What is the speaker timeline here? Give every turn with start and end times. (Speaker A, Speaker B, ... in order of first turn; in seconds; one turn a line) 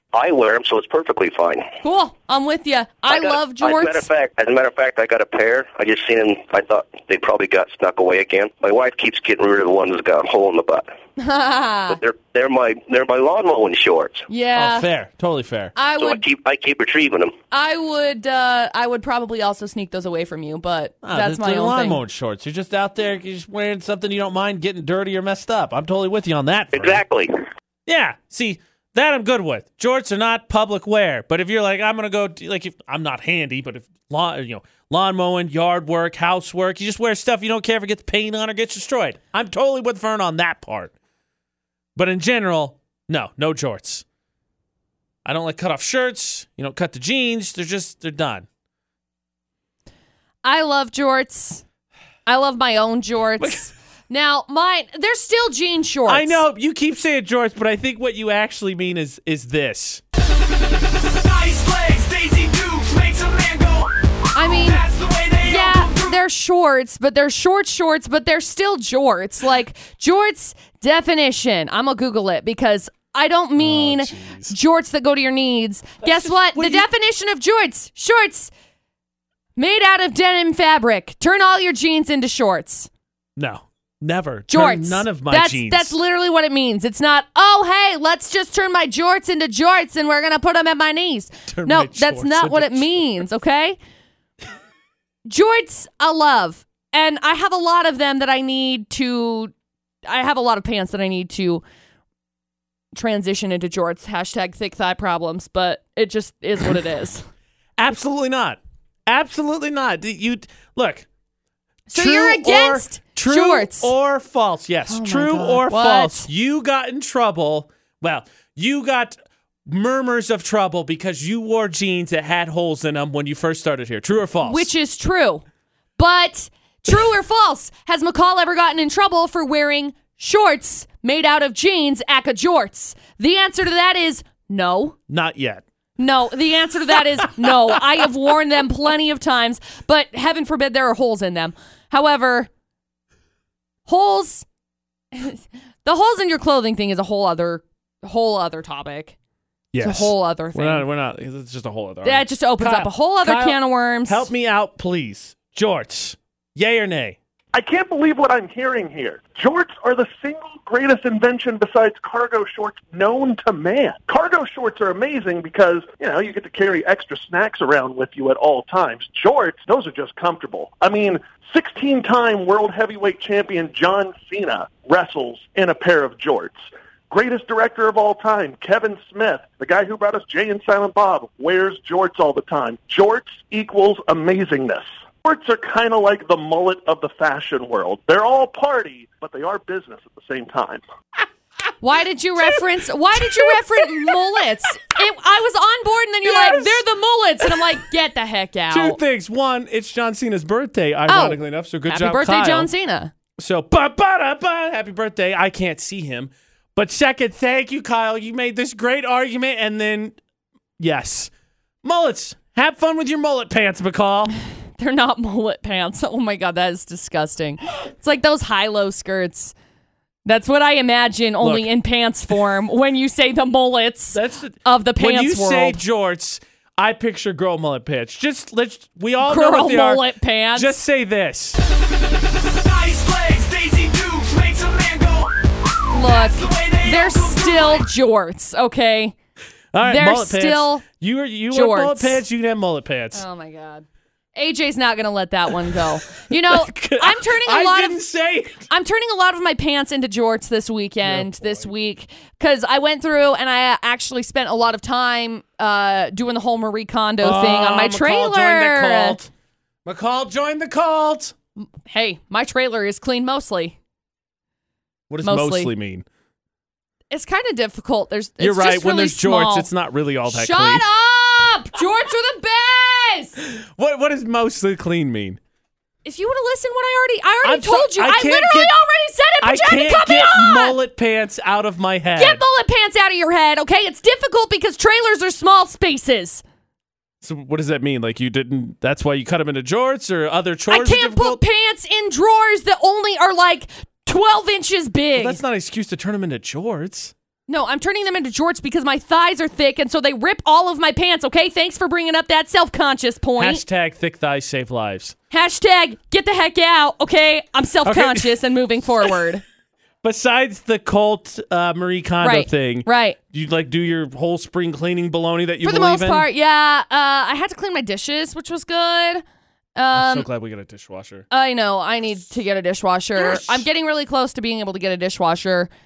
Speaker A: 0.1-1.7
Speaker B: 1.8-4.1
Speaker A: 3.1-10.9
Speaker B: 11.2-12.0
Speaker A: 11.9-14.3
Speaker B: 14.3-14.9
Speaker C: 14.6-15.7
Speaker B: 15.8-16.2
Speaker A: 16.0-17.4
Speaker B: 17.5-22.0
Speaker C: 21.0-27.0
Speaker A: 26.7-27.3
Speaker C: 27.9-40.9
Speaker C: 42.0-44.0
Speaker C: 45.2-48.5
Speaker B: 50.4-51.6
Speaker B: 52.3-56.4
Speaker C: 53.4-53.7
Speaker C: 56.1-60.0
Speaker D: 61.1-63.9
Speaker B: 64.3-64.8
Speaker D: 64.7-66.1
Speaker B: 65.4-78.5
Speaker C: 73.6-74.5
Speaker C: 76.0-76.9
Speaker B: 79.6-82.9
Speaker C: 83.4-86.0
Speaker B: 84.5-93.8
Speaker C: 91.5-93.0
Speaker B: 95.3-99.5
Speaker B: 100.1-101.6
Speaker B: 102.9-107.3
Speaker C: 107.8-111.1
Speaker B: 111.9-113.9
Speaker C: 111.9-124.7
Speaker B: 114.9-116.3
Speaker B: 124.4-125.4
Speaker B: 126.0-135.0
Speaker C: 135.1-135.6
Speaker B: 136.0-142.5
Speaker B: 143.9-144.4
Speaker B: 145.1-149.2
Speaker C: 149.7-157.2
Speaker B: 149.8-150.9
Speaker B: 152.0-154.3
Speaker E: 157.5-190.8
Speaker B: 191.8-199.0
Speaker C: 193.2-194.1
Speaker C: 196.2-196.8
Speaker C: 198.7-202.7
Speaker B: 201.1-203.1
Speaker C: 203.4-210.2
Speaker C: 210.8-211.3
Speaker C: 211.8-214.3
Speaker B: 214.8-219.5
Speaker B: 220.3-225.8
Speaker C: 221.4-221.7
Speaker C: 224.1-230.0
Speaker B: 229.2-230.8
Speaker C: 230.6-231.6
Speaker D: 232.6-235.3
Speaker B: 235.9-239.2
Speaker D: 236.4-237.2
Speaker C: 239.7-243.2
Speaker B: 239.8-240.8
Speaker B: 241.5-242.2
Speaker B: 243.1-243.8
Speaker B: 244.4-248.0
Speaker C: 246.5-248.7
Speaker B: 248.7-259.2
Speaker C: 251.0-251.7
Speaker C: 257.2-259.3
Speaker C: 259.9-261.4
Speaker B: 261.6-263.8
Speaker C: 265.1-266.1
Speaker B: 265.2-265.7
Speaker B: 267.1-269.7
Speaker C: 268.4-270.9
Speaker B: 270.3-273.4
Speaker C: 273.4-275.4
Speaker B: 276.1-280.8
Speaker C: 277.4-278.7
Speaker C: 279.4-282.4
Speaker B: 282.2-286.4
Speaker C: 287.2-291.4
Speaker B: 290.7-295.4
Speaker C: 295.1-297.1
Speaker B: 297.5-303.6
Speaker C: 303.4-305.1
Speaker B: 305.3-309.4
Speaker C: 307.9-308.4
Speaker C: 310.0-316.3
Speaker B: 312.2-313.2
Speaker B: 315.6-319.2
Speaker B: 319.8-320.3
Speaker C: 319.9-321.2
Speaker B: 321.3-325.7
Speaker C: 323.2-323.6